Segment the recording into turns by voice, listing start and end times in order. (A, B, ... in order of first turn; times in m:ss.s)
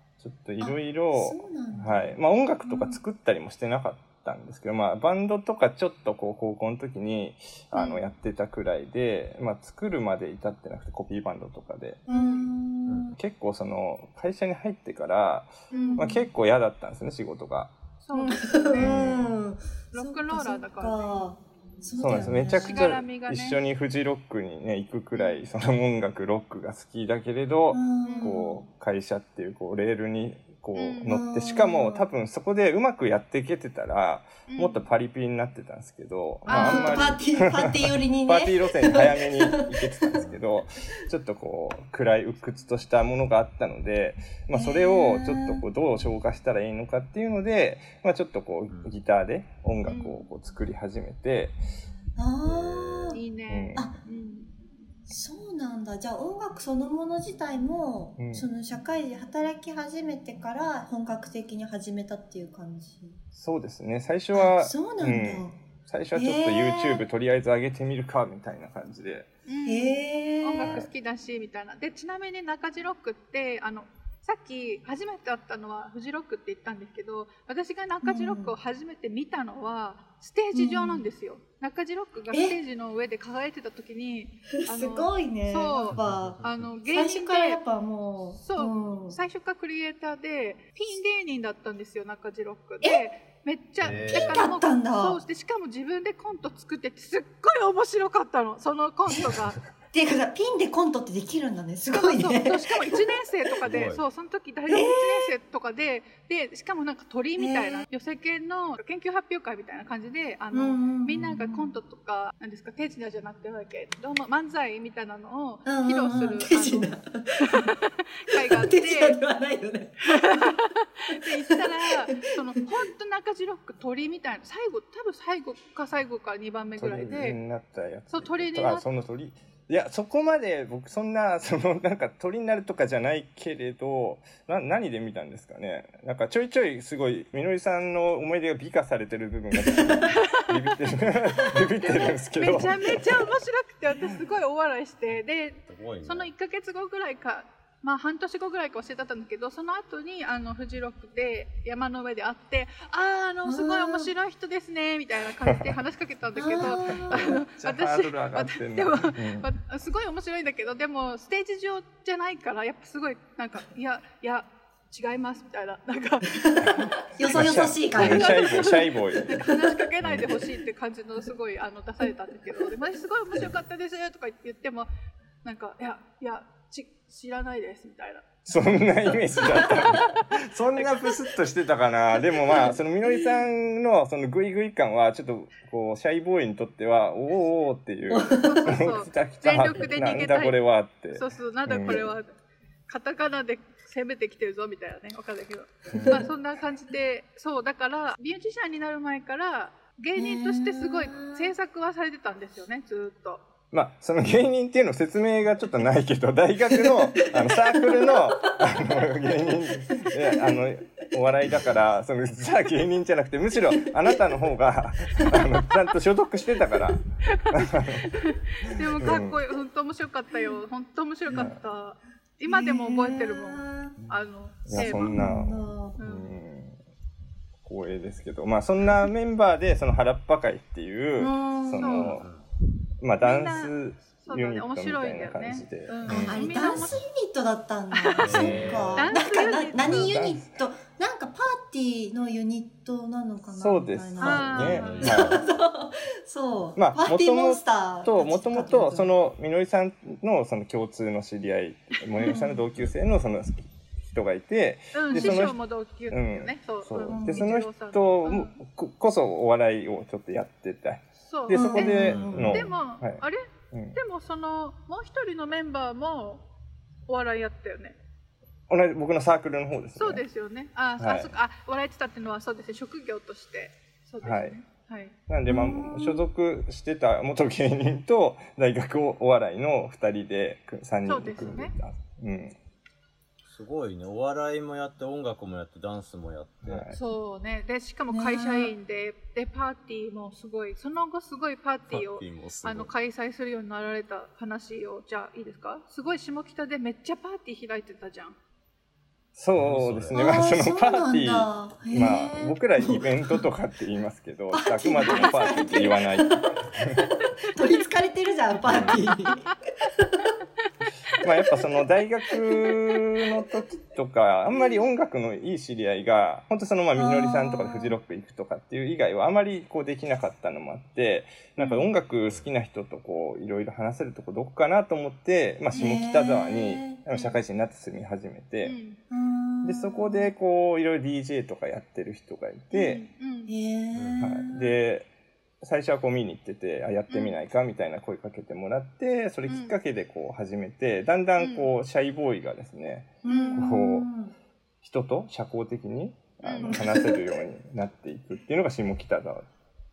0:00.2-0:12.0 A
0:00.6-0:03.0 B
0:07.8-0:08.1 C
0:12.1-0:13.2 B
0:12.1-0:12.5 C
0:12.9-0:13.1 D
0:13.1-0:17.8 A
0:15.7-0:16.1 C
0:15.7-0:16.3 B
0:18.0-0:19.0 C
0:18.1-0:23.0 B
0:18.8-0:19.3 A
0:19.9-0:21.3 C
0:22.0-0:51.6 A
0:22.6-0:23.6 C
0:25.1-0:25.4 C
0:27.7-0:28.6 B
0:28.0-0:28.4 C
0:30.8-0:31.2 C
0:31.0-0:32.1 B
0:34.5-0:34.8 C
0:36.5-0:37.2 C
0:36.5-0:40.2 B
0:44.5-0:45.6 B
0:48.7-0:49.0 D
0:49.8-0:50.2 C
0:52.2-0:53.2 B
0:52.4-0:53.2 D
0:53.1-0:54.5 C
0:53.5-0:53.9 A
0:55.1-1:03.2 B
0:58.2-0:58.5 A
1:03.3-1:09.3 A
1:04.3-1:05.6 B
1:06.1-1:07.0 B
1:09.5-1:27.6 C
1:09.6-1:10.8 B
1:10.6-1:10.9 A
1:18.0-1:18.6 B
1:20.5-1:21.1 B
1:22.3-1:22.6 B
1:24.7-1:29.2 B
1:25.9-1:26.7 D
1:28.4-1:39.6 C
1:33.8-1:34.4 D
1:34.1-1:35.2 B
1:39.1-1:39.4 A
1:39.9-1:43.1 B
1:41.9-1:57.0 C
1:43.6-1:44.0 D
1:44.7-1:45.3 B
1:47.4-1:47.9 B
1:50.5-1:51.7 B
1:55.7-1:57.7 B
1:57.5-1:59.2 C
1:58.4-2:00.6 B
2:00.1-2:07.4 C
2:01.1-2:01.8 B
2:06.8-2:23.4 A
2:08.1-2:08.9 C
2:20.1-2:20.6 C
2:21.6-2:46.6 C
2:25.7-2:26.3 D
2:33.4-2:34.1 B
2:35.5-2:35.8 A
2:36.4-2:37.4 B
2:36.6-2:39.5 A
2:46.7-2:49.3 A
2:47.2-2:49.4 B
2:47.9-2:54.9 C
2:50.0-2:50.4 A
2:55.4-2:58.3 C
2:58.5-3:12.1 A
2:59.5-3:00.1 C
3:00.8-3:01.1 C
3:08.1-3:08.7 B
3:08.4-3:12.3 C
3:12.9-3:23.4 C
3:15.9-3:16.3 A
3:20.2-3:21.5 B
3:23.7-3:38.1 A
3:26.7-3:28.3 B
3:30.2-3:30.6 B
3:37.3-3:45.2 C
3:39.0-3:39.4 A
3:41.3-3:41.6 A
3:42.5-3:44.0 B
3:44.0-3:46.8 A
3:44.7-3:46.0 B
3:46.0-3:46.3 C
3:47.6-3:52.3 A
3:51.2-3:52.0 B
3:51.8-3:52.2 C
3:52.0-3:52.4 D
3:53.0-3:56.5 A
3:53.2-3:57.0 C
3:56.1-4:09.1 B
3:57.9-4:00.1 C
3:58.2-3:59.1 D
3:58.3-3:58.7 A
3:59.7-4:00.6 A
4:03.6-4:05.4 A
4:04.2-4:05.2 C
4:04.5-4:05.4 D
4:06.8-4:15.6 A
4:12.3-4:12.7 B
4:14.9-4:18.6 C
4:15.1-4:15.5 B
4:16.1-4:24.0 A
4:17.1-4:17.5 B
4:21.2-4:23.4 C
4:21.5-4:22.6 B
4:22.1-4:22.5 D
4:23.9-4:26.5 C
4:27.1-4:28.0 C
4:28.7-4:30.3 A
4:30.0-4:35.1 C
4:31.0-4:31.4 A
4:34.2-4:34.6 A
4:35.3-4:42.6 A
4:35.5-4:36.2 B
4:41.0-4:41.8 C
4:41.4-4:41.6 D
4:43.5-4:46.9 D
4:46.6-4:47.0 A
4:46.9-4:58.4 C
4:48.1-4:48.7 B
4:51.9-4:52.9 D
4:59.4-5:07.0 A
4:59.6-5:00.2 D
5:00.1-5:03.5 B
5:04.5-5:10.3 B
5:05.0-5:05.7 C
5:08.6-5:09.0 A
5:11.2-5:28.8 A
5:17.0-5:18.0 B
5:21.6-5:21.9 B
5:25.7-5:27.1 B
5:28.6-5:29.0 C
5:29.1-5:30.3 B
5:29.6-5:33.0 A
5:32.7-5:33.5 C
5:33.5-5:34.8 B
5:34.0-5:34.2 D
5:34.2-5:35.1 A
5:35.6-5:44.1 A
5:37.1-5:37.4 C
5:39.5-5:39.8 C
5:41.4-5:41.7 C
5:43.2-5:44.3 B
5:43.3-5:43.6 C
5:44.8-5:49.4 A
5:46.4-5:46.8 C
5:46.6-5:47.3 B